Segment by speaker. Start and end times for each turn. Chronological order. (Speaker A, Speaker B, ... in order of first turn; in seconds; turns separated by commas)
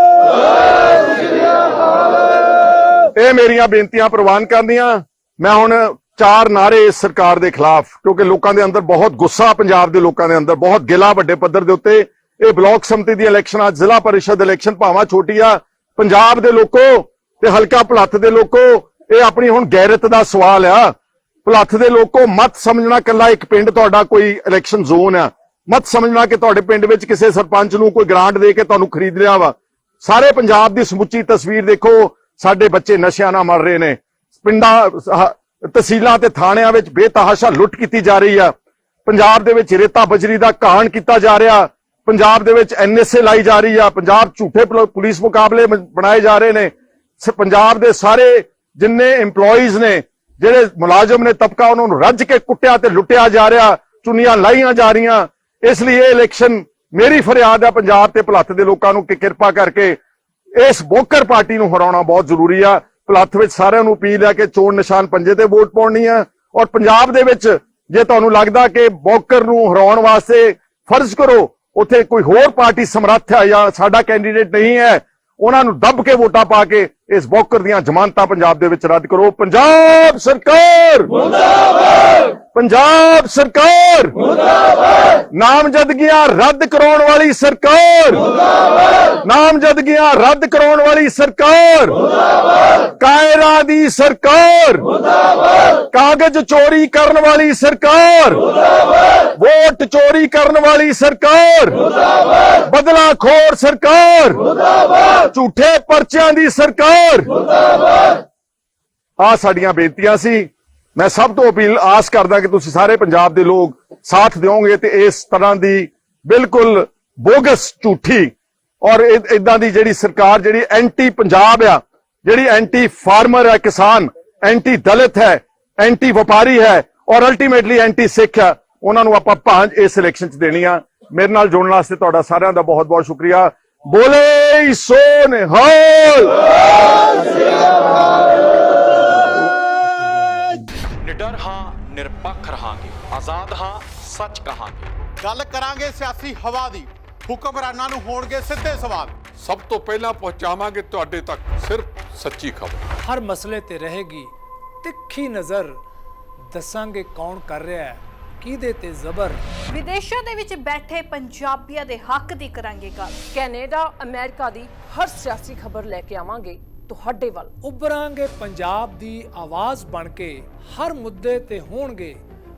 Speaker A: 3.1-20.9, Speaker A: 21.4-38.5, Speaker A: 39.1-60.0, Speaker A: 60.6-81.1, Speaker A: 82.5-84.2, Speaker A: 85.3-88.2, Speaker A: 89.2-92.0, Speaker A: 93.0-94.9, Speaker A: 95.9-98.4, Speaker A: 99.4-101.8, Speaker A: 102.6-104.4, Speaker A: 105.2-107.3, Speaker A: 109.2-118.3, Speaker A: 118.8-136.3, Speaker B: 141.0-144.9, Speaker C: 145.2-149.2, Speaker D: 149.4-152.8, Speaker E: 153.0-155.8, Speaker E: 156.5-159.4, Speaker F: 159.7-163.2, Speaker G: 163.3-167.5, Speaker E: 167.6-172.2